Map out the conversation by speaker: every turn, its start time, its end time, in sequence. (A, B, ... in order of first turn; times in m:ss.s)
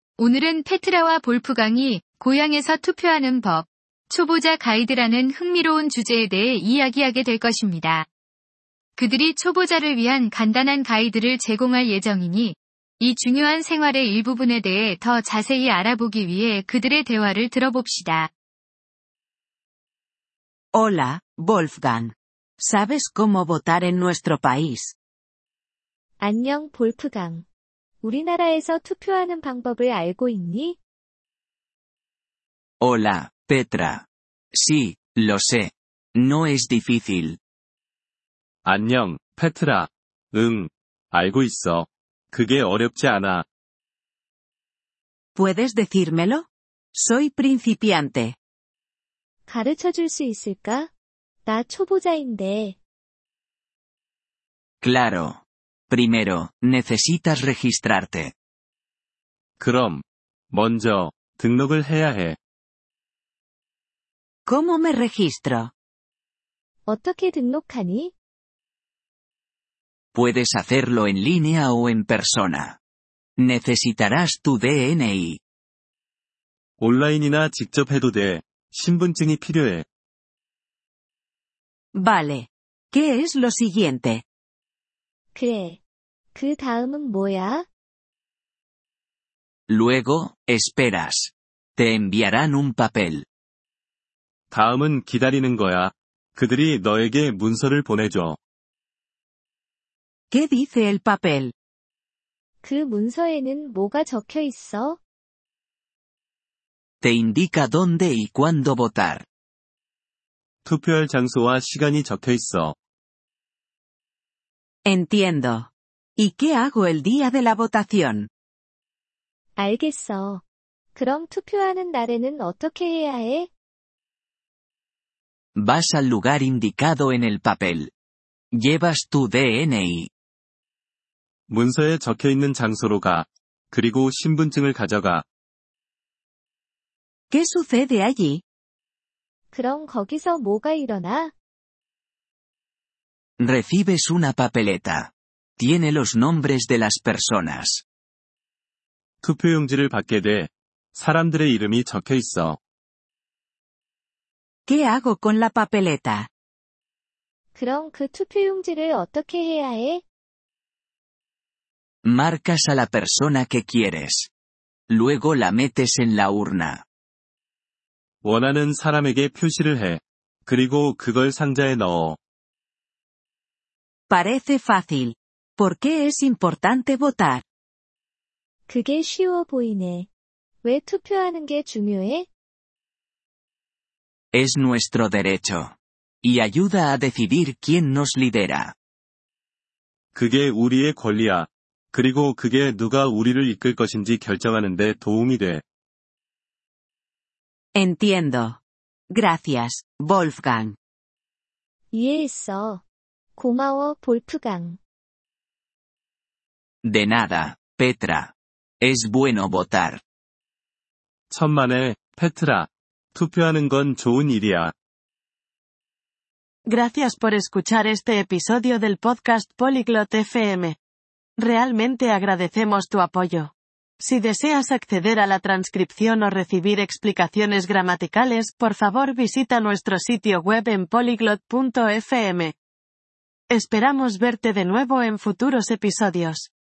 0:00.2-0:08.1 A
0:09.0-0:18.3 A
0:20.7-0:25.0 B
0:26.2-0:27.4 C
0:28.0-0:30.8 C
0:32.8-0:37.4 D
0:38.6-0:43.5 E
0:45.4-0:48.4 B
0:49.5-0:50.9 C
0:51.4-0:52.8 C
0:54.8-0:58.3 D
0:59.6-1:02.4 E
1:04.5-1:05.7 B
1:06.8-1:08.1 C
1:10.1-1:12.8 D
1:13.4-1:15.4 D
1:16.8-1:19.8 E
1:21.9-1:24.2 B
1:25.3-1:25.8 C
1:26.3-1:27.7 C
1:29.7-1:33.2 D
1:34.5-1:38.4 E
1:40.3-1:41.5 B
1:42.6-1:45.0 C
1:47.0-1:49.2 D
1:50.6-1:52.8 E
1:54.8-1:58.3 B
1:59.6-2:00.4 C
2:00.9-2:03.5 C
2:05.6-2:07.9 D
2:08.5-2:10.1 D
2:11.5-2:15.2 E
2:17.3-2:18.4 B
2:19.5-2:21.3 C
2:23.4-2:27.8 D
2:29.2-2:32.6 E
2:34.7-2:36.3 B
2:37.5-2:40.0 C
2:42.0-2:44.3 D
2:44.9-2:46.8 D
2:48.2-2:52.2 E
2:54.1-2:57.4 B
2:58.7-3:00.1 C
3:00.6-3:02.3 C
3:04.3-3:08.8 D
3:10.2-3:15.6 E
3:17.8-3:20.8 B
3:21.9-3:22.8 C
3:23.4-3:24.8 C
3:26.8-3:30.0 D
3:31.3-3:34.7 E
3:36.7-3:40.8 F
3:41.4-3:52.6 F
3:53.5-3:56.5 F